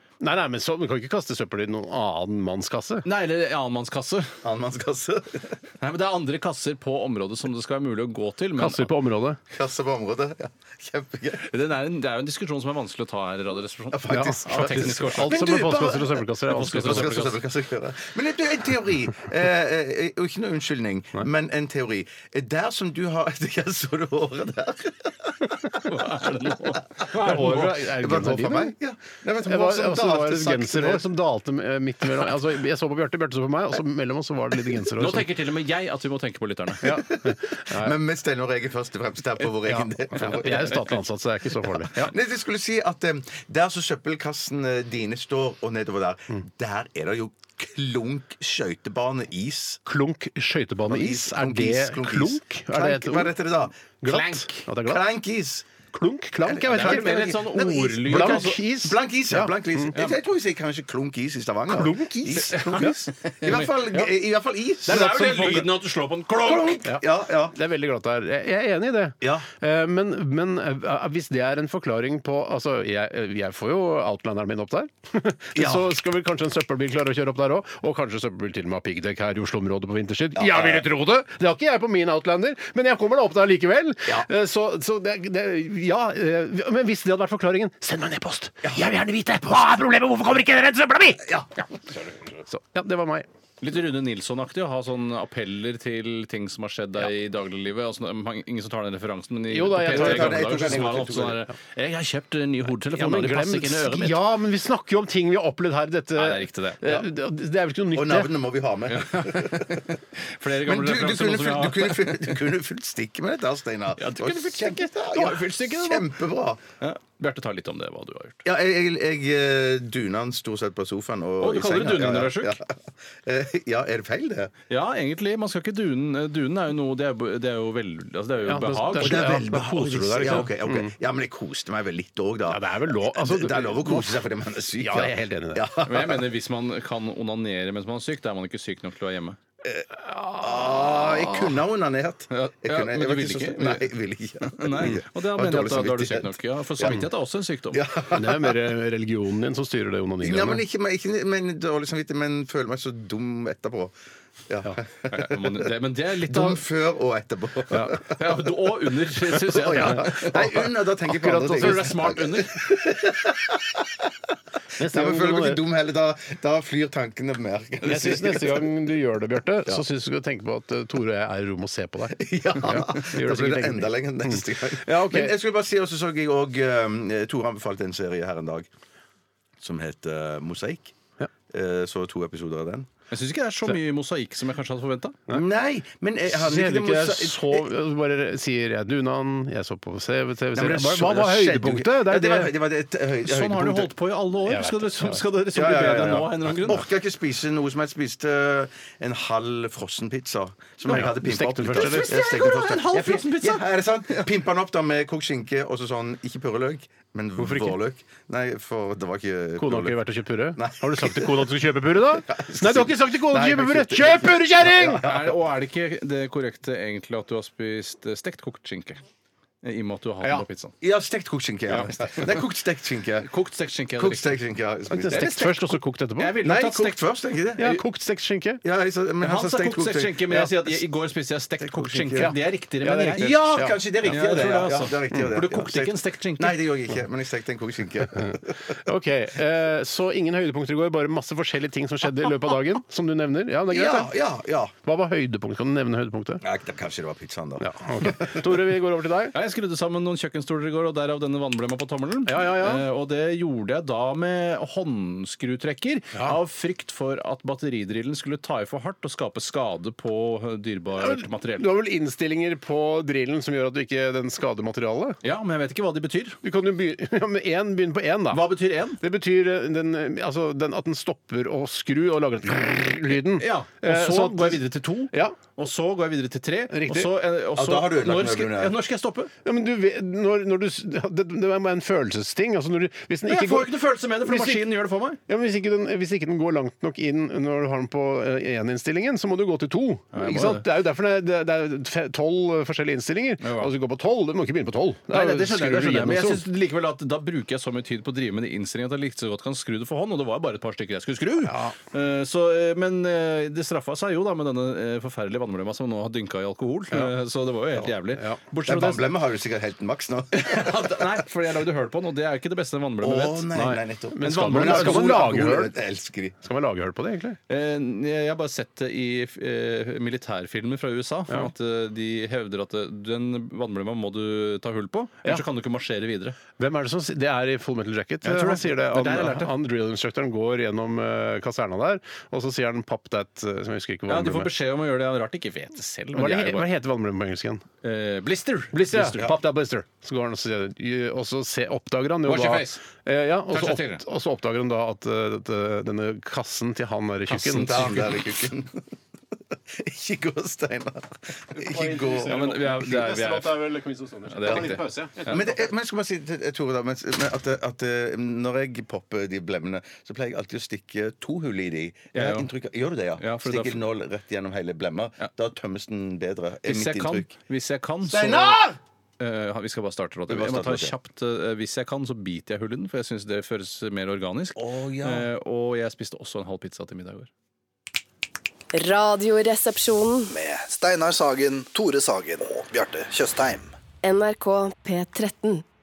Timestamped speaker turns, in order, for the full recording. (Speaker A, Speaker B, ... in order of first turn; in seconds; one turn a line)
Speaker A: 0.2-3.1
Speaker B: 3.0-4.3
Speaker C: 4.4-5.6
Speaker B: 5.8-8.9
Speaker A: 8.6-9.4
Speaker C: 9.5-11.5
Speaker B: 11.4-15.7
Speaker C: 13.9-25.8
Speaker A: 14.1-17.4
Speaker B: 16.5-17.4
Speaker B: 25.7-27.7
Speaker C: 27.0-31.1
Speaker A: 27.1-28.7
Speaker A: 29.4-35.3
Speaker B: 35.0-36.9
Speaker A: 36.8-38.0
Speaker C: 36.8-40.9
Speaker A: 39.6-42.1
Speaker C: 41.9-49.8
Speaker A: 49.9-53.4
Speaker C: 50.9-55.7
Speaker A: 54.0-55.0
Speaker B: 54.1-54.7
Speaker A: 55.9-59.9
Speaker C: 56.5-65.7
Speaker B: 56.7-58.6
Speaker A: 61.7-63.0
Speaker B: 62.4-64.0
Speaker B: 64.9-66.8
Speaker A: 64.9-65.7
Speaker C: 66.4-67.5
Speaker A: 66.8-91.3
Speaker C: 69.2-69.5
Speaker C: 75.5-75.9
Speaker C: 80.4-80.8
Speaker C: 91.2-91.7
Speaker A: 92.5-93.3
Speaker B: 93.6-104.2
Speaker A: 99.5-100.9
Speaker C: 99.8-101.4
Speaker A: 102.8-108.3
Speaker B: 106.2-107.0
Speaker C: 107.9-109.9
Speaker B: 108.9-112.3
Speaker C: 110.7-116.6
Speaker B: 114.0-116.1
Speaker B: 116.8-118.4
Speaker C: 118.5-124.5
Speaker B: 121.4-122.6
Speaker B: 124.7-129.5
Speaker A: 128.4-130.9
Speaker C: 129.0-136.2
Speaker A: 132.5-135.7
Speaker B: 135.8-139.4
Speaker C: 139.7-147.0
Speaker A: 140.0-141.5
Speaker B: 142.3-143.9
Speaker B: 144.4-147.8
Speaker C: 147.7-148.7
Speaker A: 148.1-150.6
Speaker C: 150.2-153.9
Speaker C: 154.5-155.7
Speaker B: 155.1-156.6
Speaker C: 156.3-158.4
Speaker A: 157.7-158.0
Speaker B: 158.0-160.4
Speaker C: 159.3-164.1
Speaker A: 159.7-162.0
Speaker B: 161.4-162.7
Speaker A: 164.8-165.6
Speaker C: 164.8-168.8
Speaker A: 167.8-175.4
Speaker C: 172.2-178.7
Speaker C: 179.6-181.0
Speaker C: 181.5-182.9
Speaker B: 183.1-185.2
Speaker C: 185.3-187.7
Speaker A: 186.3-192.5
Speaker C: 190.5-193.9
Speaker B: 193.2-196.8
Speaker A: 194.4-195.2
Speaker C: 195.5-210.0
Speaker A: 200.9-202.2
Speaker B: 201.7-203.6
Speaker A: 207.4-207.8
Speaker A: 209.6-215.0
Speaker C: 210.6-211.5
Speaker C: 212.3-215.3
Speaker B: 215.0-219.0
Speaker B: 219.6-220.7
Speaker C: 220.8-223.3
Speaker B: 221.7-222.3
Speaker B: 223.2-224.3
Speaker C: 224.0-225.5
Speaker A: 224.9-226.4
Speaker B: 225.1-225.5
Speaker B: 226.2-227.0
Speaker C: 226.4-227.8
Speaker A: 227.6-228.6
Speaker C: 228.6-230.8
Speaker B: 229.2-233.4
Speaker C: 231.6-232.3
Speaker A: 232.2-234.1
Speaker C: 233.2-238.8
Speaker B: 234.0-236.6
Speaker A: 238.1-244.2
Speaker C: 243.7-244.7
Speaker A: 244.8-246.4
Speaker C: 246.4-248.6
Speaker A: 247.6-249.4
Speaker B: 249.3-261.7
Speaker A: 252.2-252.8
Speaker A: 261.0-265.2
Speaker B: 265.2-266.4
Speaker A: 266.4-275.4
Speaker B: 268.3-269.0
Speaker B: 273.4-279.3
Speaker A: 276.7-277.1
Speaker C: 277.5-278.8
Speaker A: 279.4-284.7
Speaker B: 283.3-285.2
Speaker A: 285.3-296.4
Speaker B: 290.1-290.7
Speaker B: 293.4-293.7
Speaker B: 295.1-309.1
Speaker A: 301.4-301.8
Speaker A: 307.8-308.4
Speaker C: 308.6-311.1
Speaker B: 310.3-313.5
Speaker C: 313.0-316.4
Speaker A: 313.5-315.7
Speaker B: 314.2-315.3
Speaker A: 316.4-317.4
Speaker B: 317.5-326.4
Speaker A: 326.6-334.5
Speaker B: 328.2-329.5
Speaker B: 334.1-336.7
Speaker A: 336.1-337.6
Speaker B: 337.8-339.4
Speaker A: 338.7-348.1
Speaker B: 342.2-342.8
Speaker B: 343.5-344.0
Speaker B: 347.3-348.1
Speaker C: 347.4-348.8
Speaker C: 349.5-352.6
Speaker A: 351.5-355.6
Speaker B: 352.2-353.6
Speaker B: 354.3-355.4
Speaker C: 355.2-367.3
Speaker B: 362.1-362.5
Speaker B: 363.2-363.8
Speaker B: 366.6-368.6
Speaker C: 368.1-368.8
Speaker B: 369.2-377.3
Speaker C: 370.3-370.9
Speaker C: 374.6-375.3
Speaker D: 378.7-380.3
Speaker E: 380.3-383.7
Speaker D: 384.0-385.6